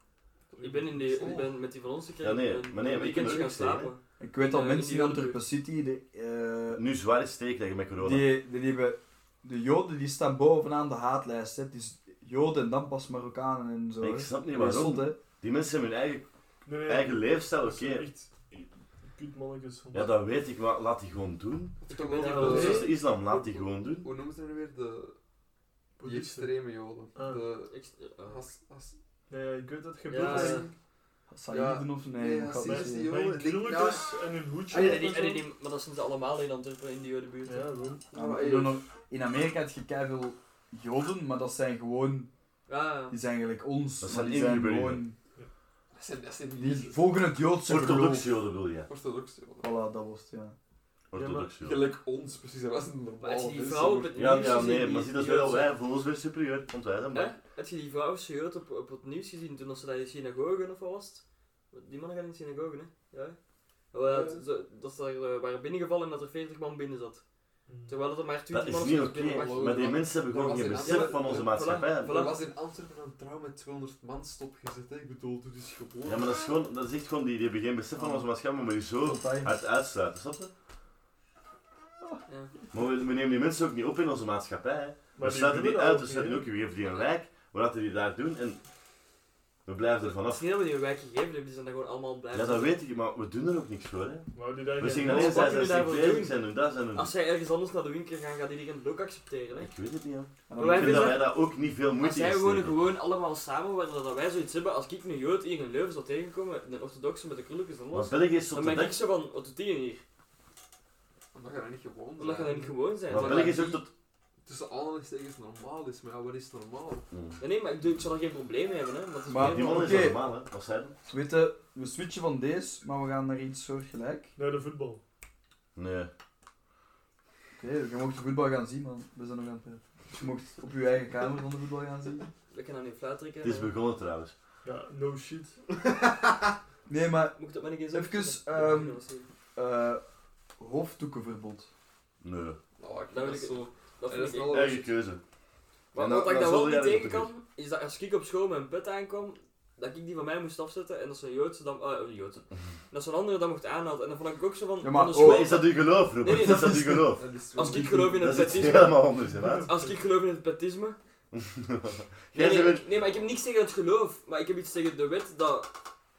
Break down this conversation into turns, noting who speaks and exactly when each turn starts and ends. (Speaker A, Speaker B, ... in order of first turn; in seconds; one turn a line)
Speaker A: 0.5-1.6
Speaker B: 0.6-5.4
Speaker C: 2.2-3.9
Speaker D: 4.2-6.8
Speaker C: 6.7-8.3
Speaker D: 8.0-15.2
Speaker C: 14.0-16.2
Speaker E: 16.6-20.1
Speaker C: 16.8-18.1
Speaker C: 19.9-21.8
Speaker A: 21.8-25.1
Speaker B: 21.9-22.9
Speaker E: 22.2-22.9
Speaker C: 22.3-24.1
Speaker E: 26.0-26.5
Speaker A: 26.0-28.9
Speaker E: 27.1-27.4
Speaker B: 27.7-28.4
Speaker E: 29.3-30.7
Speaker B: 30.1-30.7
Speaker A: 30.2-30.7
Speaker D: 31.3-33.1
Speaker A: 31.5-34.2
Speaker E: 32.6-35.4
Speaker B: 34.7-37.7
Speaker E: 37.5-38.1
Speaker A: 38.1-38.8
Speaker D: 38.1-42.3
Speaker B: 42.7-43.2
Speaker D: 43.1-45.1
Speaker C: 44.0-45.0
Speaker A: 45.9-47.0
Speaker D: 46.6-48.3
Speaker C: 47.6-48.9
Speaker A: 48.9-49.7
Speaker D: 49.6-50.5
Speaker C: 51.1-51.9
Speaker E: 51.1-51.5
Speaker A: 51.5-54.8
Speaker B: 53.2-55.7
Speaker C: 54.1-57.3
Speaker B: 57.1-63.4
Speaker B: 63.9-67.2
Speaker A: 64.0-64.4
Speaker E: 67.7-68.0
Speaker B: 67.9-72.4
Speaker C: 68.5-72.2
Speaker A: 69.1-76.4
Speaker C: 76.0-80.5
Speaker D: 78.0-78.2
Speaker D: 79.0-79.5
Speaker C: 82.7-88.6
Speaker E: 85.1-86.5
Speaker C: 89.7-90.4
Speaker B: 90.0-92.8
Speaker C: 92.3-97.1
Speaker E: 94.3-95.7
Speaker B: 95.0-99.7
Speaker C: 99.5-102.8
Speaker D: 100.5-101.2
Speaker B: 100.6-101.3
Speaker B: 102.0-110.0
Speaker C: 107.9-109.0
Speaker A: 111.3-113.7
Speaker B: 112.2-113.8
Speaker C: 113.1-113.9
Speaker A: 114.4-117.0
Speaker C: 117.1-117.4
Speaker B: 117.4-120.2
Speaker D: 119.3-120.2
Speaker C: 119.4-121.0
Speaker D: 121.0-124.3
Speaker E: 124.3-125.0
Speaker C: 125.8-126.1
Speaker D: 127.6-132.3
Speaker B: 132.5-133.7
Speaker C: 133.4-134.3
Speaker E: 134.6-135.6
Speaker D: 136.9-137.4
Speaker B: 137.3-139.3
Speaker D: 137.9-139.0
Speaker D: 139.5-140.0
Speaker D: 140.6-141.7
Speaker C: 142.2-142.6
Speaker A: 142.8-144.9
Speaker B: 143.1-144.8
Speaker C: 144.5-145.2
Speaker B: 145.9-159.0
Speaker C: 145.9-147.3
Speaker D: 154.8-155.6
Speaker C: 155.1-157.2
Speaker D: 156.2-158.2
Speaker A: 157.2-158.5
Speaker C: 158.2-159.7
Speaker E: 159.2-159.9
Speaker B: 159.7-161.0
Speaker C: 161.3-162.8
Speaker B: 162.3-165.7